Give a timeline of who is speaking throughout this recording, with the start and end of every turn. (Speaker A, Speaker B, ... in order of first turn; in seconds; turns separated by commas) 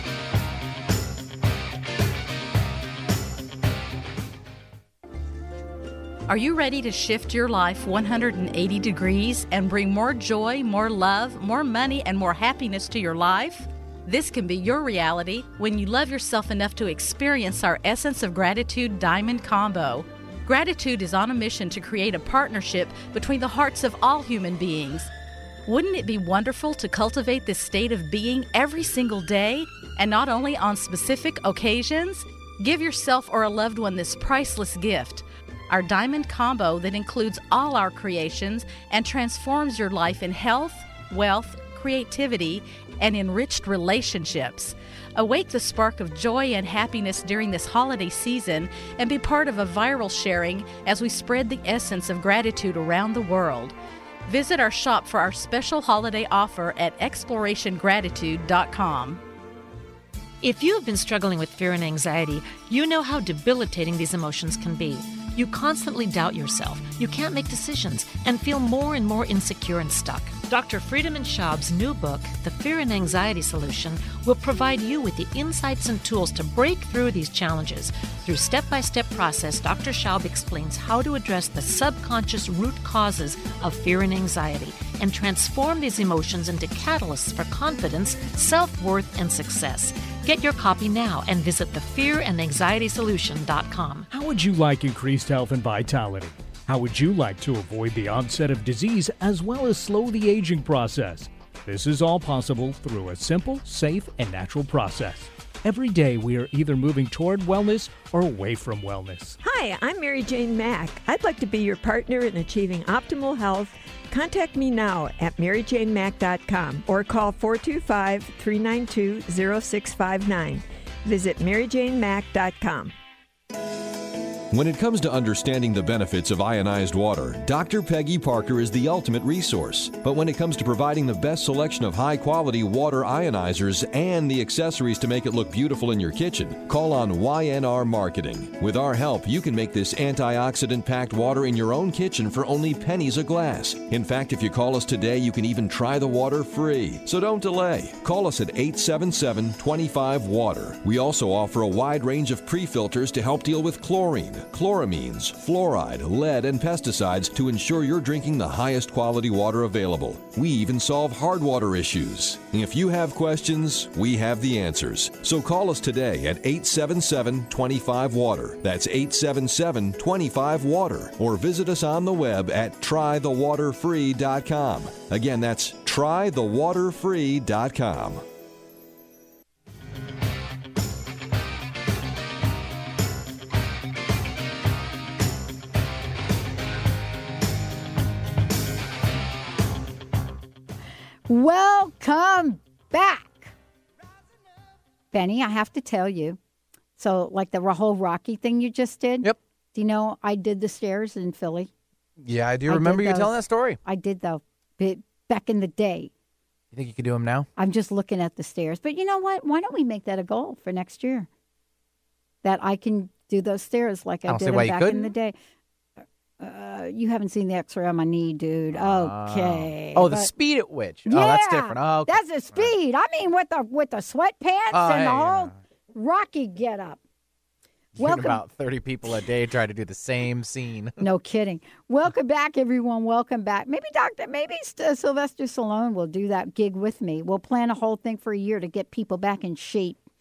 Speaker A: 6.3-25.1, Speaker A: 25.7-53.8, Speaker A: 54.3-59.2, Speaker B: 60.4-94.1, Speaker C: 94.1-109.4, Speaker D: 109.4-122.9, Speaker E: 124.5-178.2, Speaker F: 191.3-193.5, Speaker F: 195.1-196.4, Speaker F: 197.0-201.7, Speaker G: 202.2-203.8, Speaker F: 202.7-206.1, Speaker G: 206.7-207.5, Speaker F: 207.6-211.3, Speaker F: 212.4-215.3, Speaker G: 214.3-215.1, Speaker F: 216.4-220.3, Speaker G: 218.7-222.7, Speaker F: 221.1-227.0, Speaker G: 224.7-225.6, Speaker G: 227.9-231.0, Speaker F: 228.0-228.4, Speaker F: 231.0-240.0